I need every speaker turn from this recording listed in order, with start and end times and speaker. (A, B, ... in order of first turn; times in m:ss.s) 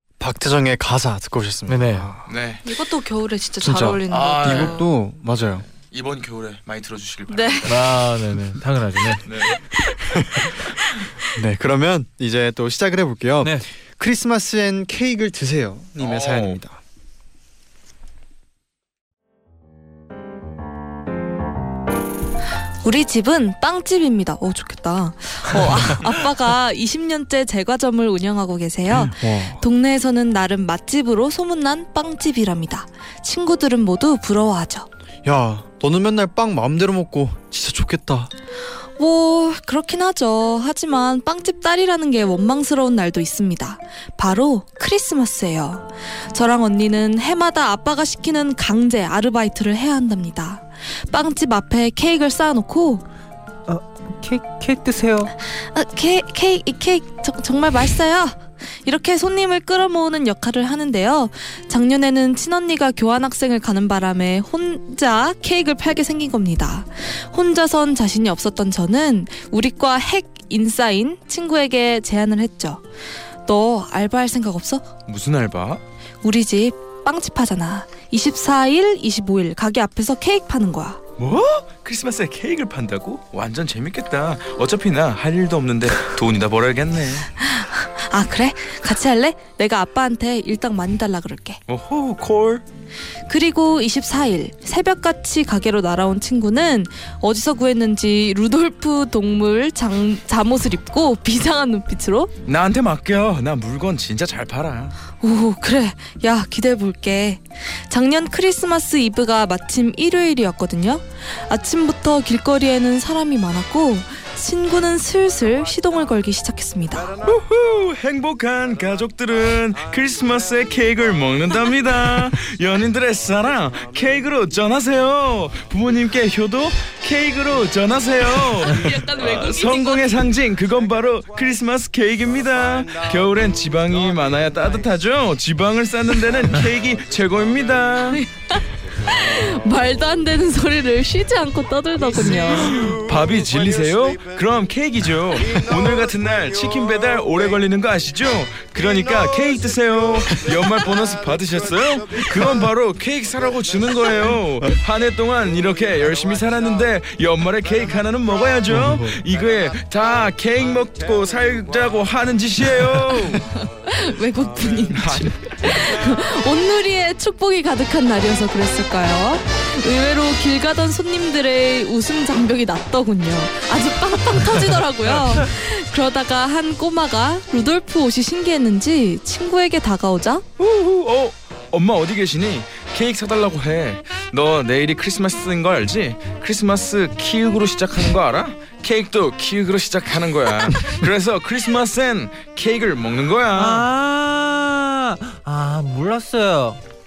0:00.2-0:02.3 A
0:01.7-0:02.1 B
0:02.3-0:02.6 C
0:02.6-0:04.9 D
0:03.6-0:05.6 A
0:04.1-0:04.8 C
0:05.7-0:08.1 C
0:07.3-0:07.8 D
0:07.7-0:09.2 B
0:09.2-0:09.6 C
0:09.4-0:10.6 D
0:10.1-0:10.4 A
0:11.3-0:16.8 A
0:16.0-0:16.6 C
0:22.8-0:34.9 D
0:28.9-0:29.6 A
0:35.2-0:38.3 A
0:39.0-0:53.0 D
0:53.7-0:55.3 B
0:55.6-1:12.8 D
1:13.4-1:14.9 D
1:15.1-1:15.8 C
1:16.2-1:21.0 D
1:21.2-1:27.3 C
1:27.4-1:31.6 D
1:31.7-1:32.6 C
1:33.2-1:42.3 D
1:42.4-1:44.9 C
1:45.2-1:57.1 D
1:57.2-2:18.2 C
2:08.6-2:10.2 D
2:18.1-2:22.9 D
2:22.1-2:43.5 C
2:38.7-2:39.1 B
2:38.7-2:39.2 A
2:43.6-3:00.4 D
2:44.6-2:46.0 C
3:00.6-3:13.9 C
3:13.5-3:16.8 B